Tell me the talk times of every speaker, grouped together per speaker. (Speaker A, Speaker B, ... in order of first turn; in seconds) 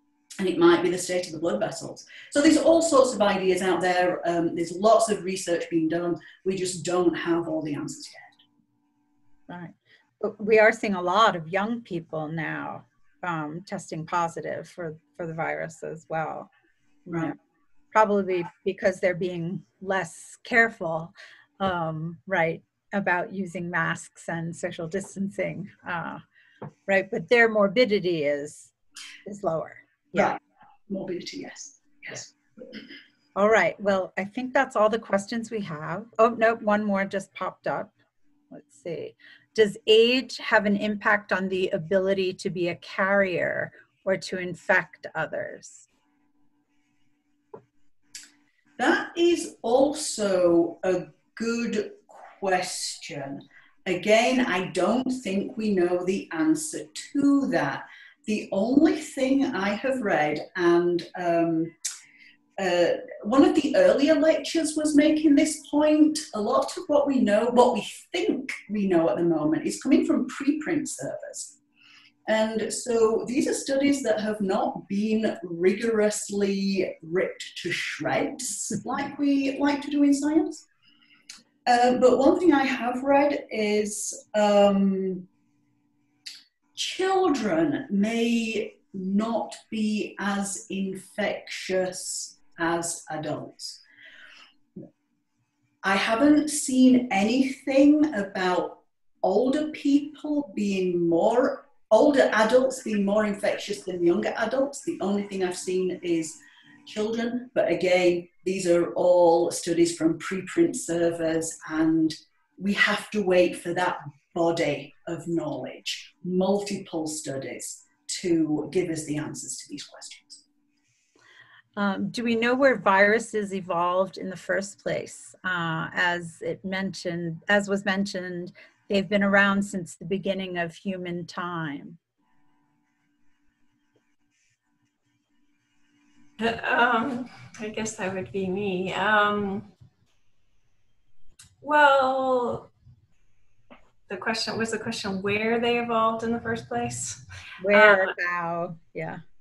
Speaker A: 0.4-8.3, 30.1-32.3, 48.8-61.7, 62.6-71.6, 72.3-80.7, 81.7-85.3, 86.8-93.8, 95.8-120.4
Speaker B: 9.5-16.5, 17.1-17.4, 17.9-26.2, 26.9-28.7, 29.2-30.3, 33.4-37.9, 38.5-45.9, 121.8-132.0, 147.6-149.2
Speaker C: 136.4-139.7, 141.6-142.7, 144.1-147.2, 147.7-148.1